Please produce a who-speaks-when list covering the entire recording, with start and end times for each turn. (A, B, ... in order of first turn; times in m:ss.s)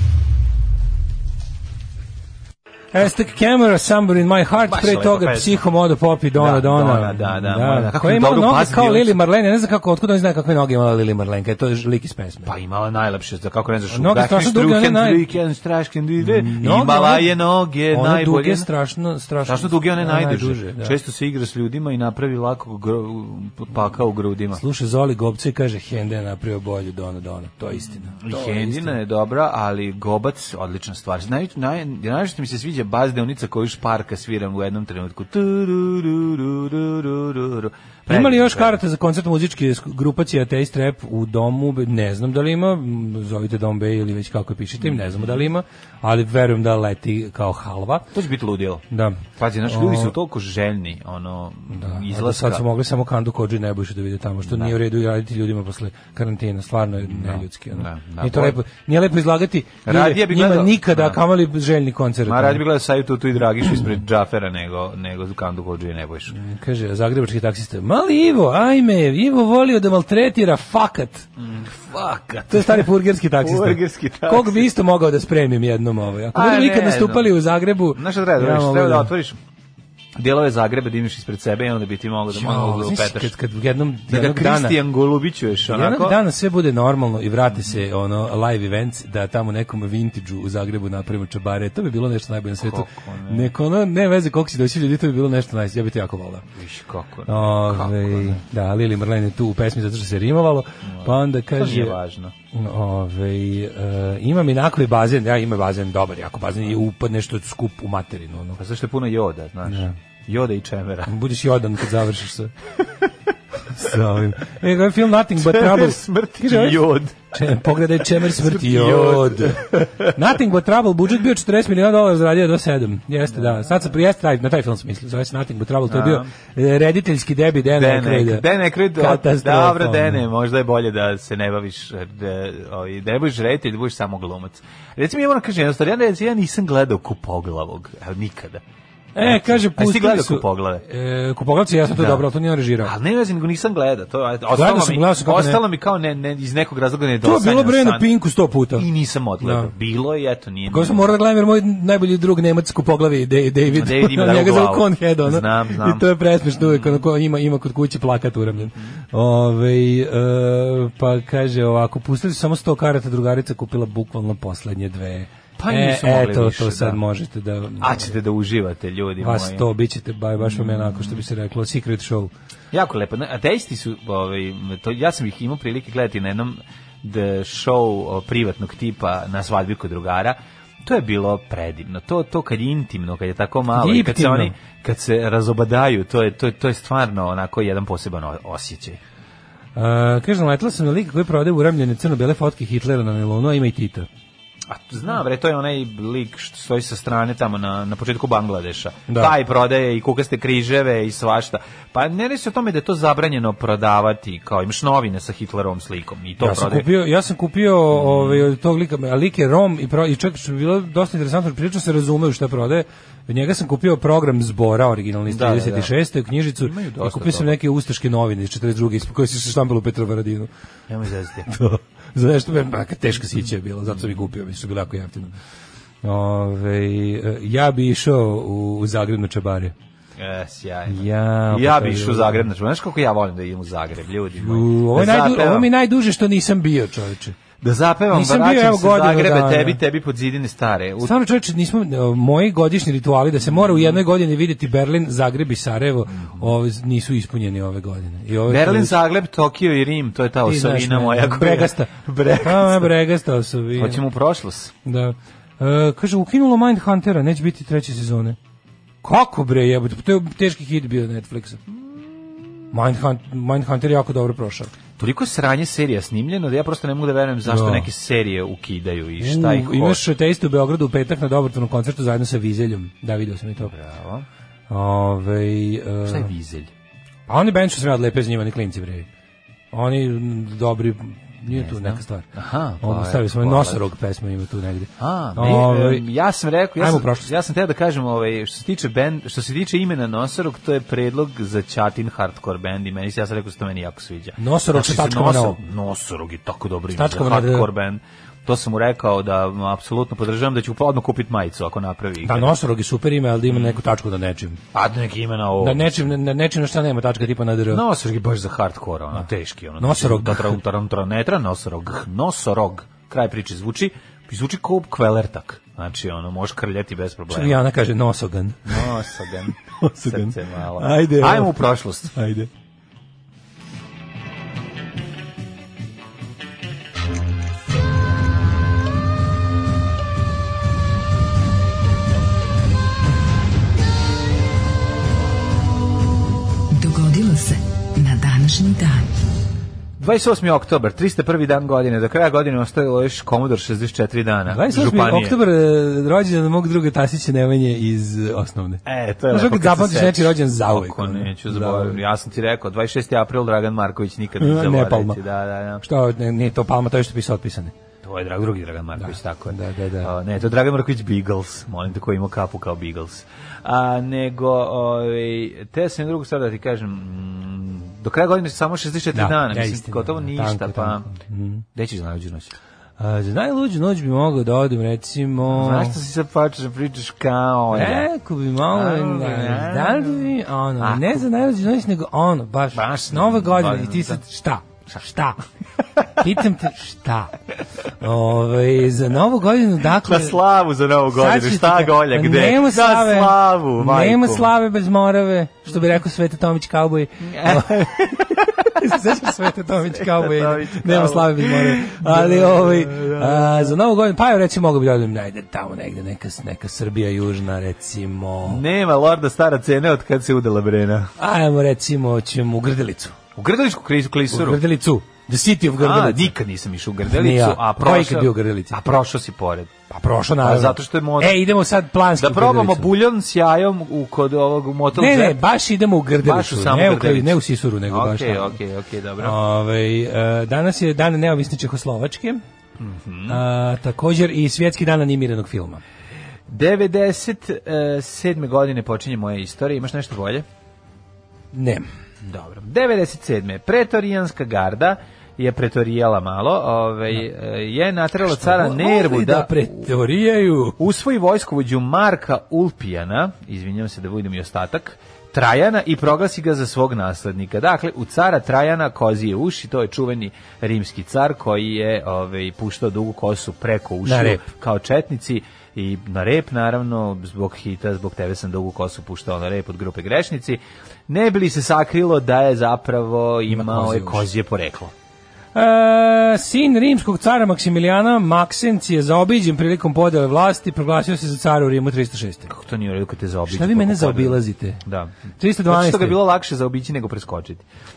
0:02.9-0:12.5 A
0:04.7-0:05.6 B
0:06.4-0:09.2 B
0:12.4-0:18.7 B
0:13.9-0:15.2 A
0:16.2-0:17.3 A
0:17.9-0:21.0 A
0:19.4-0:24.6 B
0:24.6-0:29.0 A
0:28.1-0:38.8 B
0:38.1-0:48.1 A
0:44.8-0:45.4 B
0:48.1-0:48.8 B
0:48.9-0:50.1 A
0:49.4-0:52.7 B
0:51.7-1:02.6 A
0:54.4-0:54.8 B
0:57.0-0:58.6 B
0:59.8-1:01.2 B
1:02.3-1:06.3 B
1:06.3-1:11.3 A
1:11.4-1:14.7 B
1:12.5-1:19.1 A
1:16.3-1:17.4 B
1:17.9-1:19.4 B
1:20.2-1:23.3 B
1:22.3-1:24.8 A
1:24.1-1:26.2 B
1:25.7-1:36.4 A
1:32.6-1:33.5 B
1:36.6-1:38.4 B
1:37.3-1:42.0 A
1:40.8-1:42.3 B
1:42.5-1:48.6 A
1:48.6-1:51.2 B
1:49.7-1:50.0 A
1:51.1-1:52.5 A
1:52.8-1:53.1 B
1:53.7-2:10.2 A
1:55.4-1:57.3 B
1:58.1-2:00.2 B
2:03.3-2:03.7 B
2:05.9-2:06.3 B
2:07.7-2:18.6 B
2:19.2-2:22.9 A
2:19.2-2:20.8 B
2:21.9-2:22.3 B
2:22.8-2:28.1 B
2:24.6-2:25.6 A
2:27.2-2:28.9 A
2:28.8-2:31.1 B
2:29.4-2:29.7 A
2:30.7-2:48.1 A
2:33.7-2:36.1 B
2:36.6-2:37.1 B
2:38.5-2:39.0 B
2:45.6-2:47.0 B
2:47.8-2:49.7 B
2:49.2-2:52.3 A
2:50.4-2:51.2 B
2:52.7-3:09.0 B
3:03.7-3:04.5 A
3:09.8-3:14.1 A
3:14.7-3:26.9 B
3:19.1-3:19.3 A
3:26.4-3:40.5 A
3:27.9-3:28.5 B
3:35.3-3:35.9 B
3:36.6-3:37.6 B
3:40.9-3:41.5 B
3:41.5-3:45.3 A
3:43.9-3:44.3 B
3:46.0-3:49.7 A
3:50.2-3:55.7 B
3:50.9-3:52.5 A
3:54.4-3:57.4 A
3:57.6-4:01.2 B
3:58.1-3:59.8 A
4:01.0-4:09.0 A
4:03.4-4:04.0 B
4:06.1-4:06.6 B
4:08.5-4:12.9 B
4:10.5-4:14.0 A
4:13.8-4:14.7 B
4:14.9-4:18.4 A
4:19.0-4:21.6 A
4:21.7-4:22.4 B
4:22.7-4:24.7 A
4:25.0-4:30.0 B
4:27.5-4:27.9 A
4:29.2-4:33.7 A
4:33.6-4:34.3 B
4:34.7-4:36.3 A
4:36.0-4:36.7 B
4:37.3-4:39.1 A
4:39.7-4:42.3 A
4:41.5-4:43.8 B
4:42.8-4:46.1 A
4:45.0-5:02.5 B
4:46.8-4:47.3 A
4:54.4-4:55.6 A
4:57.0-4:57.7 A
5:02.2-5:04.6 A
5:03.5-5:03.8 B
5:04.7-5:05.9 B
5:05.6-5:07.8 A
5:07.7-5:17.6 B
5:09.8-5:10.6 A
5:17.3-5:18.9 A
5:18.7-5:22.2 B
5:19.8-5:21.6 A
5:22.2-5:22.5 A
5:36.8-5:39.1 C
5:40.0-5:45.4 B
5:44.5-5:52.0 A
5:48.8-5:55.8 B
5:54.4-5:55.2 A
5:55.8-5:57.7 A
5:58.0-6:11.1 B
5:59.0-6:00.1 A
6:09.2-6:11.6 A
6:11.8-6:12.6 B
6:13.0-6:16.0 A
6:15.5-6:18.1 B
6:17.7-6:25.4 A
6:18.7-6:21.3 B
6:22.7-6:24.2 B
6:26.2-6:27.3 A
6:28.0-6:30.4 A
6:30.0-6:34.5 B
6:31.1-6:48.6 A
6:37.2-6:39.3 B
6:39.8-6:43.8 B
6:48.4-6:51.1 B
6:51.2-6:53.2 A
6:53.4-6:54.6 B
6:54.3-6:56.3 A
6:55.8-6:59.7 B
6:57.1-6:58.8 A
6:59.9-7:02.9 A
7:00.4-7:01.4 B
7:02.2-7:05.4 B
7:05.0-7:08.5 A
7:06.2-7:09.4 B
7:09.2-7:12.4 A
7:12.8-7:13.4 B
7:13.3-7:15.8 A
7:16.5-7:20.4 B
7:21.5-7:21.8 A
7:22.2-7:29.9 B
7:28.2-7:30.8 A
7:30.8-7:54.9 B
7:44.0-7:44.4 A
7:53.5-7:54.3 A
7:55.6-8:02.5 A
8:02.5-8:05.2 B
8:03.5-8:04.8 A
8:05.4-8:06.2 A
8:05.7-8:07.6 B